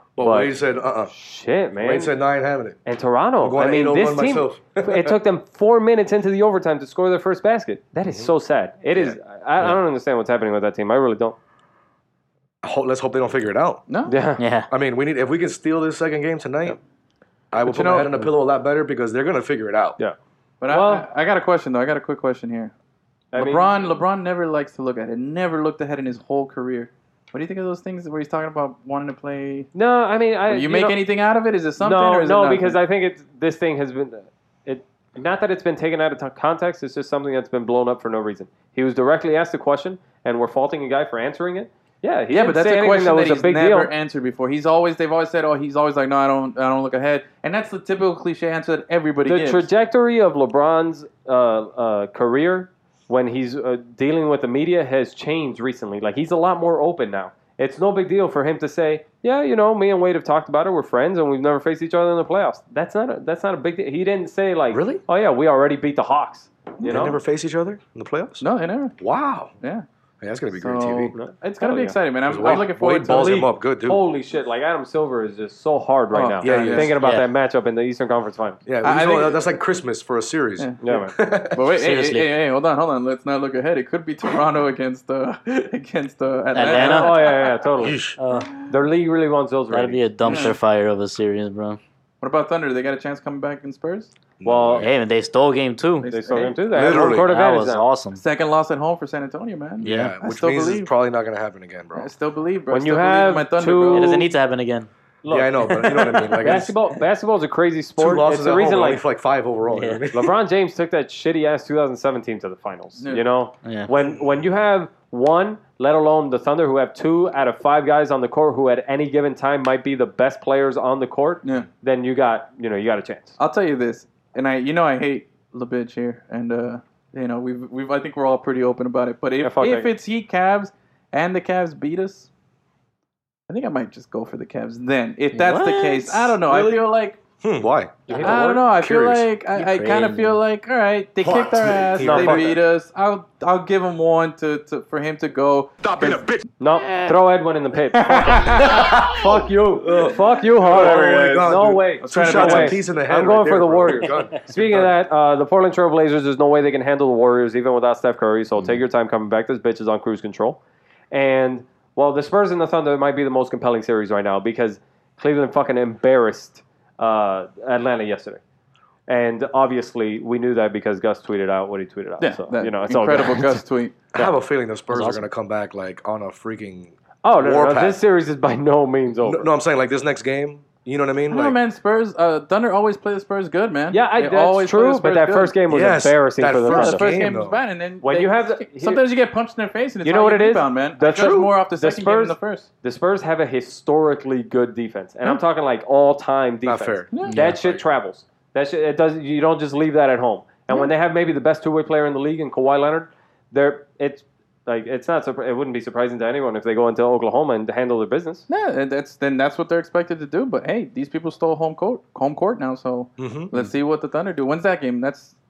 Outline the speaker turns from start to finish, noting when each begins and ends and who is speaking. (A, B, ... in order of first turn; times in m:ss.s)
0:00.2-0:01.1 A
0:00.2-0:00.5 B
0:01.1-0:02.1 B
0:01.8-0:02.8 A
0:02.8-0:11.4 B
0:03.4-0:05.2 A
0:08.9-0:09.2 A
0:12.6-0:13.8 A
0:13.9-0:14.1 C
0:14.1-0:14.4 B
0:14.4-0:14.7 D
0:14.7-0:16.8 A
0:17.5-0:20.0 A
0:17.6-0:18.3 C
0:20.6-0:22.7 C
0:20.7-0:21.1 B
0:23.3-0:23.7 B
0:23.4-0:29.7 C
0:29.7-0:31.0 B
0:30.5-0:32.8 C
0:31.8-0:43.9 B
0:42.3-0:49.7 C
0:49.3-1:07.2 B
1:04.7-1:05.0 A
1:06.8-1:08.4 A
1:08.4-1:09.0 C
1:09.0-1:09.5 A
1:10.2-1:11.2 A
1:10.6-1:13.5 C
1:11.1-1:12.7 B
1:12.3-1:14.0 A
1:13.8-1:18.6 B
1:16.1-1:17.0 C
1:16.4-1:17.0 A
1:17.0-1:17.3 D
1:18.7-1:21.7 A
1:18.8-1:19.4 C
1:20.8-1:21.1 B
1:21.5-1:27.5 C
1:21.7-1:22.3 D
1:26.5-1:27.2 D
1:26.7-1:28.0 B
1:27.8-1:28.2 A
1:28.2-1:28.5 D
1:28.4-1:28.7 C
1:28.7-1:30.5 B
1:29.7-1:31.8 D
1:30.2-1:30.6 C
1:32.2-1:34.1 C
1:34.4-1:34.9 A
1:34.4-1:34.9 B
1:34.8-1:36.1 D
1:36.0-1:36.6 C
1:36.1-1:37.8 B
1:36.7-1:37.3 A
1:36.8-1:38.2 D
1:38.2-1:40.9 C
1:39.8-1:40.2 D
1:39.8-1:42.1 A
1:42.0-1:44.3 C
1:42.7-1:44.3 B
1:43.9-1:44.9 D
1:45.2-1:49.0 B
1:45.3-1:46.7 A
1:48.0-1:50.3 A
1:49.7-1:50.0 D
1:50.1-2:03.4 B
1:53.0-1:53.2 C
1:53.6-1:53.9 D
2:03.4-2:12.3 C
2:09.4-2:09.9 B
2:13.5-2:17.2 C
2:15.3-2:16.4 D
2:16.5-2:16.8 A
2:17.4-2:19.3 A
2:18.1-2:18.6 B
2:18.2-2:26.4 C
2:19.5-2:20.4 D
2:21.2-2:22.6 A
2:22.0-2:22.6 B
2:26.6-2:40.6 B
2:27.9-2:29.0 C
2:28.6-2:34.9 A
2:30.7-2:31.4 C
2:32.0-2:32.8 C
2:41.1-2:48.4 B
2:49.1-2:53.6 B
2:52.2-2:54.0 C
2:54.1-2:58.0 A
2:54.9-2:55.2 D
2:57.2-2:59.5 B
2:59.2-3:01.6 A
3:01.3-3:05.6 C
3:03.9-3:07.1 B
3:05.7-3:07.6 A
3:06.7-3:12.7 C
3:08.0-3:09.0 B
3:10.0-3:28.4 B
3:11.1-3:11.5 A
3:16.6-3:17.8 A
3:17.3-3:17.6 D
3:28.5-3:35.3 C
3:33.2-3:33.5 A